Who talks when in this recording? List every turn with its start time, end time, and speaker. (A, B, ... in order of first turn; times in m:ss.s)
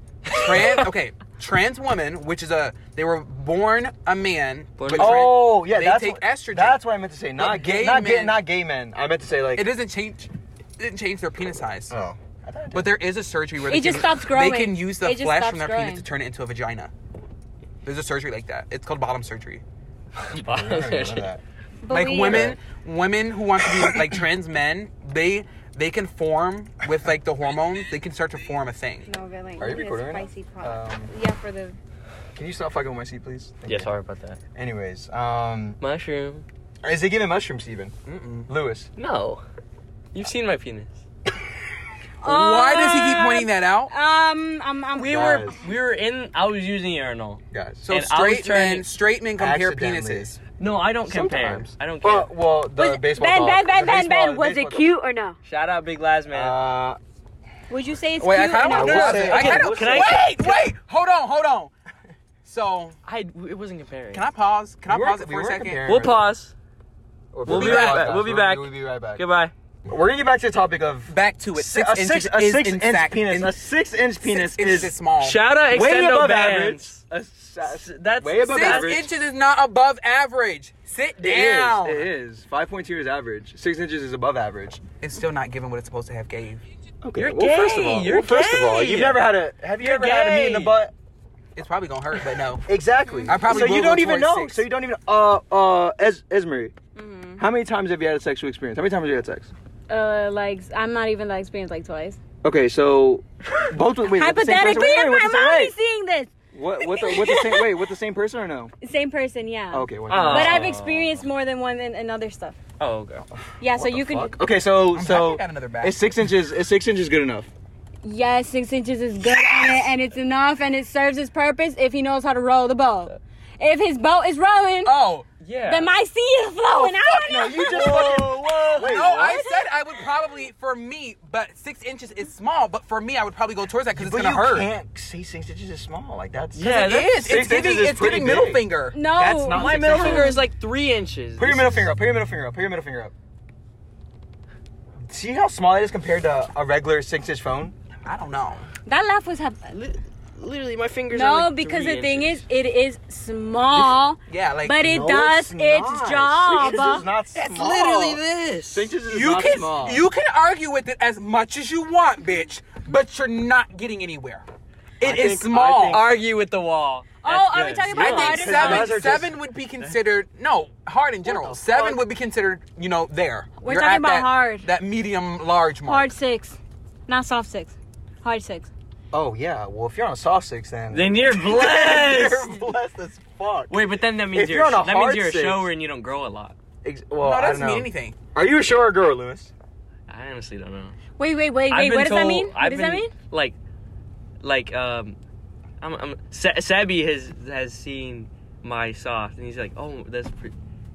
0:00.3-0:00.9 A
0:00.3-0:06.8 B
0:04.8-0:05.3 A
0:04.9-0:09.7 C
0:07.4-0:08.4 B
0:09.5-0:11.9 B
0:11.9-0:12.9 C
0:12.7-0:16.9 B
0:13.6-0:16.0 D
0:17.8-0:19.6 B
0:20.2-0:21.4 C
0:20.3-0:21.3 A
0:21.8-0:22.5 D
0:21.9-0:29.1 B
0:22.1-0:22.6 C
0:23.7-0:24.1 C
0:29.0-0:31.8 D
0:29.6-0:31.1 C
0:32.3-0:33.9 C
0:33.6-0:34.4 A
0:34.5-0:35.8 C
0:35.8-0:36.4 A
0:36.8-0:37.9 C
0:38.0-0:38.5 B
0:38.5-0:38.9 C
0:39.0-0:39.4 A
0:40.1-0:41.0 A
0:42.2-0:45.4 D
0:42.2-0:43.9 B
0:44.9-0:48.9 A
0:45.0-0:45.6 C
0:47.5-0:47.8 C
0:47.8-0:50.4 B
0:49.4-0:50.3 C
0:50.6-0:52.3 A
0:51.1-0:54.9 C
0:52.8-0:55.4 D
0:55.4-0:56.6 A
0:56.3-0:57.0 C
0:57.7-0:59.6 D
0:58.2-1:01.7 B
0:58.7-1:00.2 C
0:59.1-1:00.6 A
1:02.4-1:03.0 B
1:03.0-1:04.3 A
1:04.1-1:05.8 B
1:04.9-1:06.3 C
1:05.8-1:06.5 A
1:07.3-1:09.2 C
1:07.4-1:09.5 A
1:07.5-1:08.2 B
1:09.9-1:15.0 C
1:11.1-1:13.5 B
1:14.2-1:15.4 B
1:15.2-1:17.0 A
1:15.7-1:19.1 C
1:17.6-1:19.0 A
1:18.5-1:22.1 B
1:21.2-1:24.8 C
1:25.0-1:26.6 B
1:27.0-1:30.9 C
1:27.2-1:30.8 A
1:31.6-1:32.6 B
1:32.6-1:36.7 C
1:33.0-1:33.7 D
1:33.3-1:34.6 B
1:37.0-1:37.4 D
1:37.4-1:39.5 C
1:39.9-1:42.2 D
1:42.4-1:45.7 C
1:44.0-1:47.8 D
1:46.5-1:48.7 C
1:48.8-1:52.6 D
1:49.7-1:51.2 C
1:50.1-1:50.8 A
1:52.8-1:53.2 A
1:53.6-1:54.4 D
1:53.7-1:57.5 C
1:54.9-1:56.0 B
1:58.0-2:04.9 D
2:04.8-2:05.3 B
2:05.4-2:05.9 A
2:05.7-2:08.3 D
2:07.0-2:09.4 C
2:07.6-2:09.4 A
2:08.8-2:14.7 B
2:09.2-2:09.6 D
2:13.9-2:20.4 C
2:16.5-2:17.3 A
2:16.7-2:19.0 B
2:18.9-2:20.4 D
2:19.5-2:21.8 A
2:21.4-2:23.1 C
2:25.1-2:27.7 C
2:28.0-2:28.7 B
2:28.8-2:29.7 D
2:29.7-2:32.4 A
2:31.1-2:37.1 D
2:34.3-2:34.9 B
2:34.8-2:40.0 C
2:37.3-2:38.9 A
2:39.1-2:44.4 B
2:45.0-2:46.0 B
2:45.0-2:46.1 C
2:45.8-2:49.0 A
2:47.2-2:49.0 D
2:47.3-2:56.1 B
2:47.9-2:49.3 C
2:51.2-2:52.0 C
2:53.6-2:54.7 D
2:55.8-2:58.7 D
2:59.1-3:05.7 C
3:00.9-3:02.6 A
3:03.7-3:06.6 A
3:06.8-3:09.5 C
3:07.2-3:08.2 B
3:10.1-3:11.0 A
3:11.2-3:13.1 D
3:11.7-3:13.6 A
3:14.4-3:15.2 A
3:15.8-3:20.5 A